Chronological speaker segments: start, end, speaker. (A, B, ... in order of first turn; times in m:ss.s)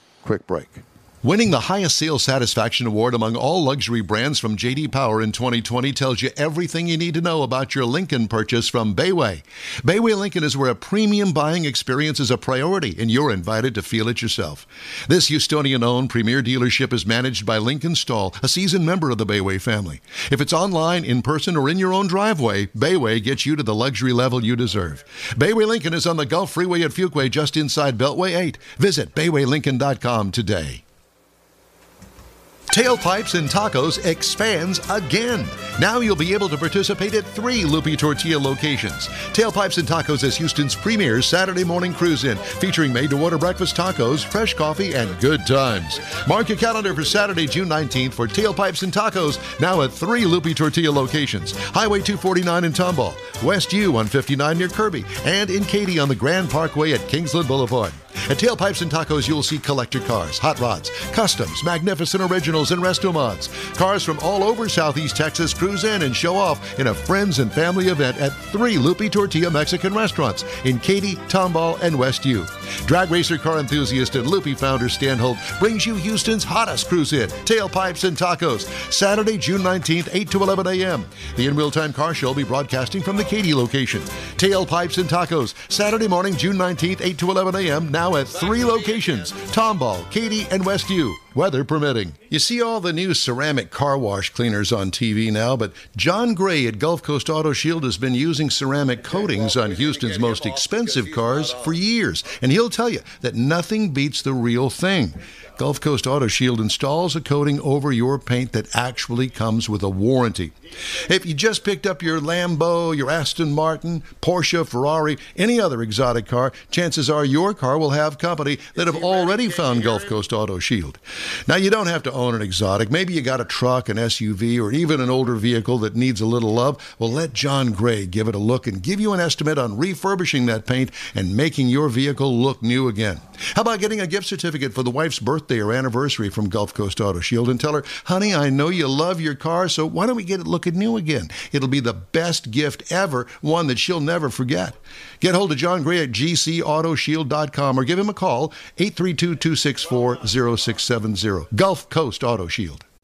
0:00.2-0:30.8 A
0:32.7-2:32.8 A